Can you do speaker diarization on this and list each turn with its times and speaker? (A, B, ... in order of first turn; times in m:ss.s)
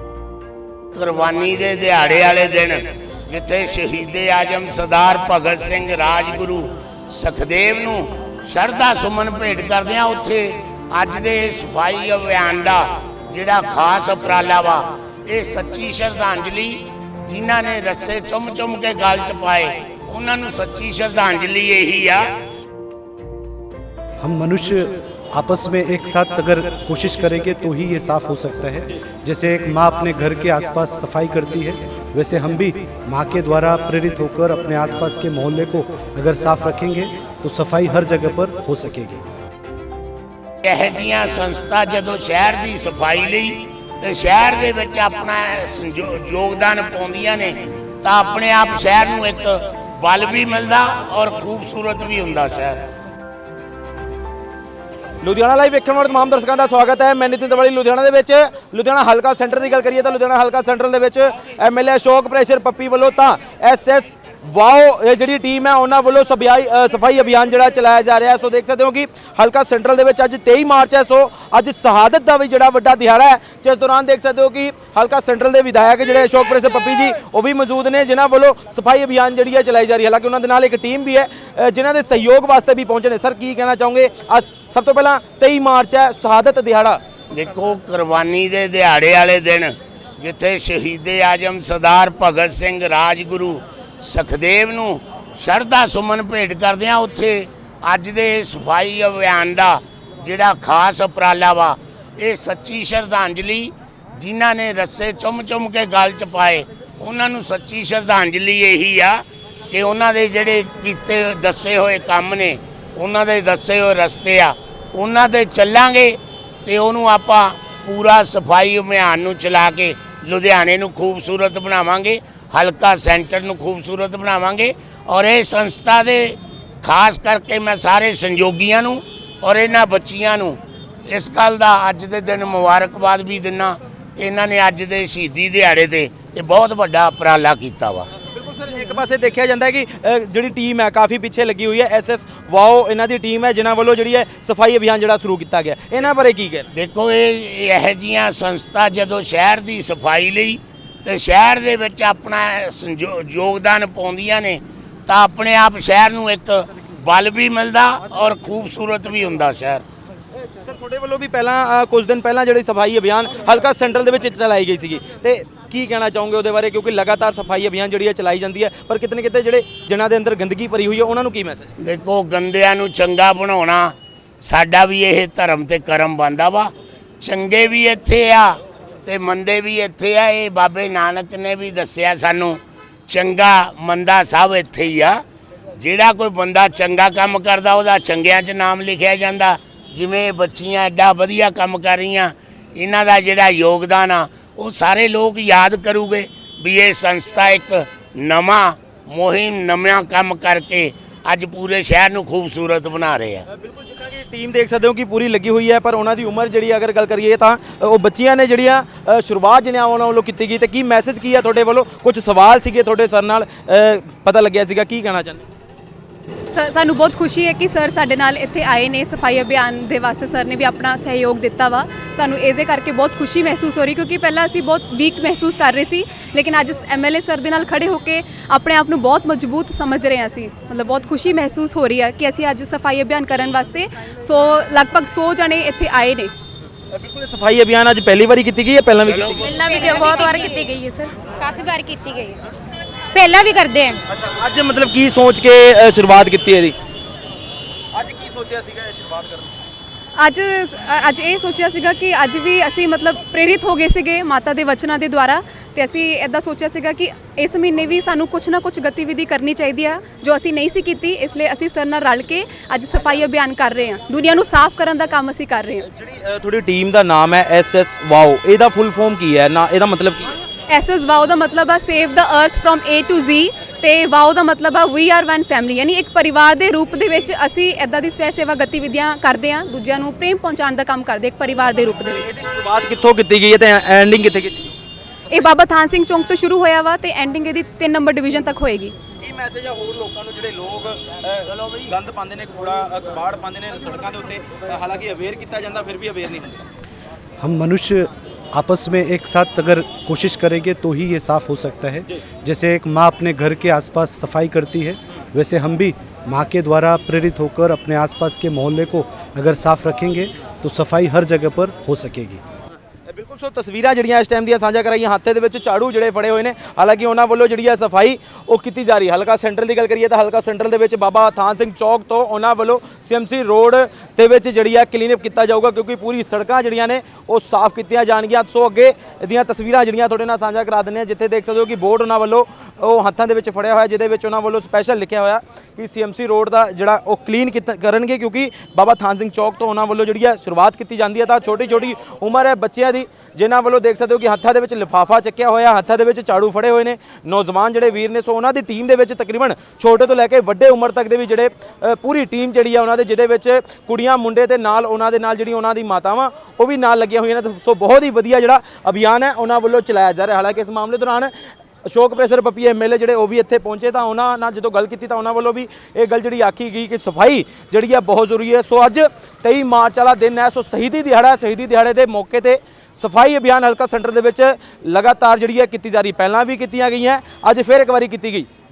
0:00.9-0:22.3 A
0:24.2-0:39.2 B
0:40.6-0:52.9 A
0:55.2-1:27.0 C
1:27.3-2:18.1 A
2:18.2-2:26.7 C
2:26.7-2:39.8 A
2:40.4-2:51.7 C
2:51.8-3:05.2 A
3:05.8-3:23.4 A
3:23.5-3:35.4 C
3:36.5-3:56.3 D
3:56.9-3:59.7 C
3:59.1-3:59.4 A
3:59.4-4:02.4 E
4:03.1-4:04.0 E
4:04.1-4:06.8 C
4:07.9-4:09.6 C
4:10.2-4:25.9 D
4:25.9-4:30.4 C
4:30.7-4:42.3 D
4:42.2-4:44.8 C
4:45.3-4:49.0 D
4:49.2-4:56.6 C
4:57.4-5:12.4 B
5:13.1-6:18.5 C